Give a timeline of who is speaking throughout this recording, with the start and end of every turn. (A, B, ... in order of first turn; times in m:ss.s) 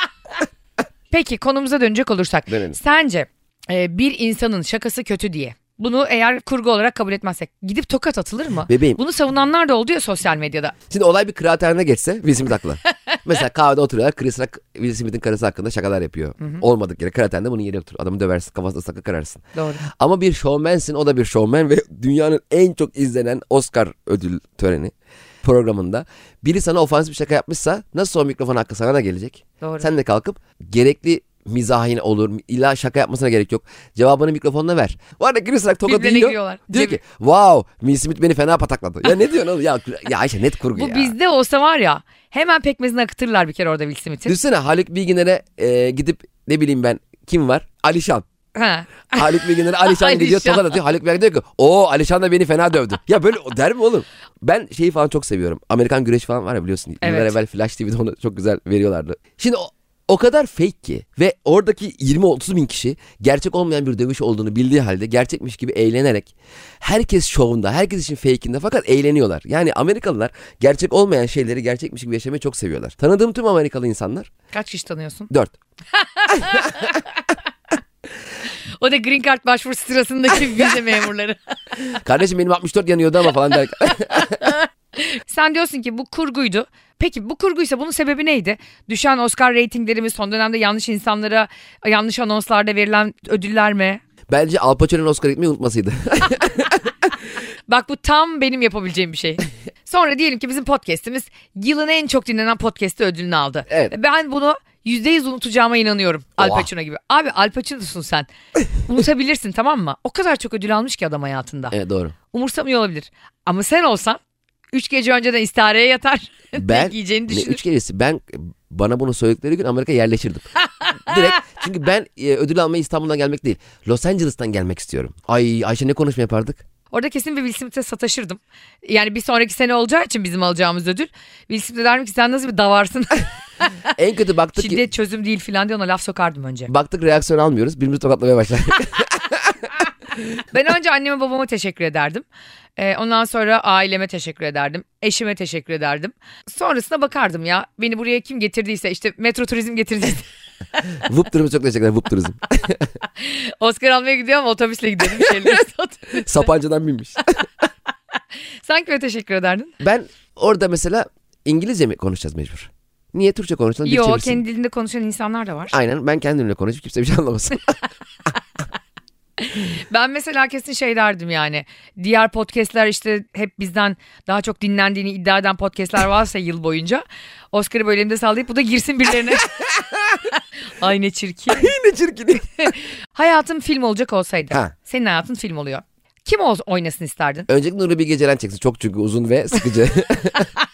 0:01.1-0:10.8 A
0:02.5-0:02.8 B
0:08.7-0:09.0 B
0:10.9-0:41.1 B
0:19.5-0:19.8 A
0:29.6-0:29.9 A
0:35.8-0:37.0 A
0:40.7-0:44.3 A
0:44.3-0:48.2 B
0:48.5-0:50.8 A
0:49.1-1:14.3 B
0:57.0-0:57.3 A
1:14.5-1:15.3 A
1:16.0-1:17.1 A
1:18.8-1:21.4 A
1:21.9-1:24.4 B
1:24.4-1:34.0 A
1:34.3-1:36.9 B
1:37.7-1:51.7 A
1:43.7-1:43.9 B
1:46.4-1:46.7 B
1:51.7-1:52.1 B
1:52.3-1:54.2 A
1:54.7-1:57.6 A
1:56.6-2:00.5 B
2:00.8-2:01.2 A
2:01.0-2:06.6 B
2:06.9-2:13.3 A
2:14.0-2:14.8 B
2:14.6-2:16.7 A
2:16.7-2:19.7 B
2:20.5-2:22.2 A
2:22.8-2:30.3 A
2:31.0-2:32.9 B
2:33.2-2:36.4 A
2:36.2-2:37.4 B
2:38.6-2:39.8 A
2:39.8-2:44.4 B
2:43.8-2:45.7 A
2:45.7-2:47.8 B
2:49.4-2:59.5 A
2:59.6-3:00.2 B
3:00.7-3:01.7 A
3:01.5-3:02.7 B
3:02.6-3:07.5 A
3:07.5-3:10.5 B